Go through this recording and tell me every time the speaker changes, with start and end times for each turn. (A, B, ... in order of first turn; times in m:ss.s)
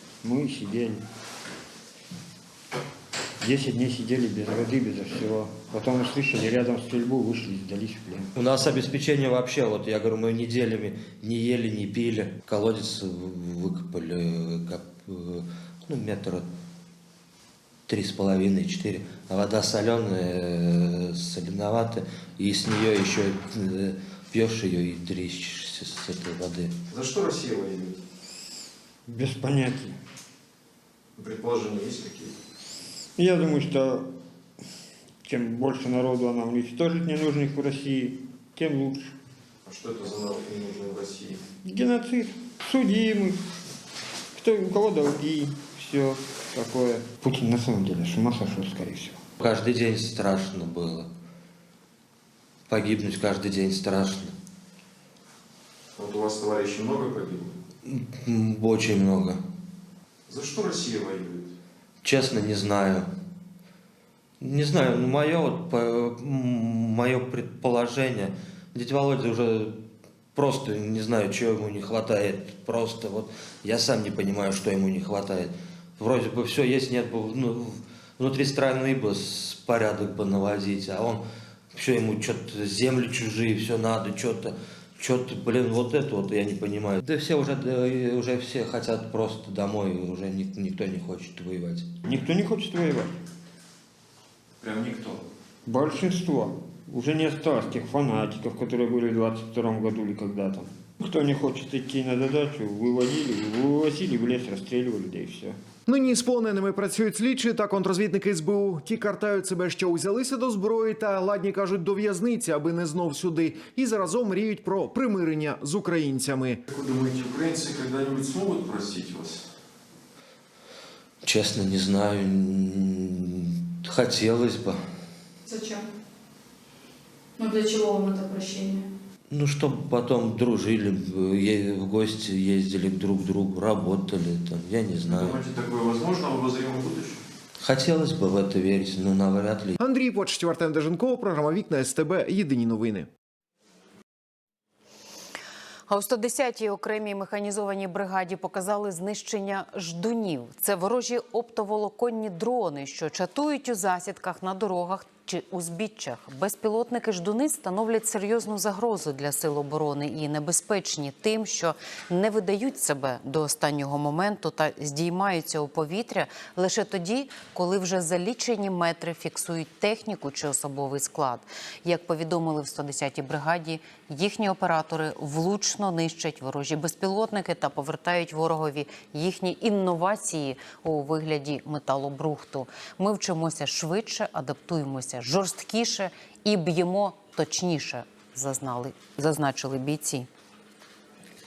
0:00.2-0:01.0 A
0:03.4-0:08.3 A
0:08.3-0:16.4 B
0:17.9-0:26.7 B
0:26.9-0:28.0 C
0:29.1-0:30.0 A
0:31.2-0:32.3 C
0:33.2-0:34.1 A
0:35.2-0:39.1 A
0:39.6-0:41.4 C
0:41.6-0:43.4 A
0:44.3-0:49.2 A
0:49.4-0:51.1 B
0:52.7-0:54.3 B
0:56.0-0:57.5 C
0:57.8-0:59.4 B
1:00.3-1:01.5 C
1:02.0-1:03.1 B
1:04.4-1:09.8 B
1:10.3-1:31.9 B
1:32.0-1:33.1 A
1:34.6-1:35.2 C
1:35.6-1:45.6 A
1:45.9-1:56.6 D
1:56.7-1:59.4 C
2:01.2-2:04.8 B
2:05.4-2:05.8 E
2:07.4-2:08.8 E
2:09.3-2:15.4 B
2:15.0-2:17.2 C
2:17.6-2:19.7 B
2:19.8-2:23.1 D
2:25.9-3:10.3 F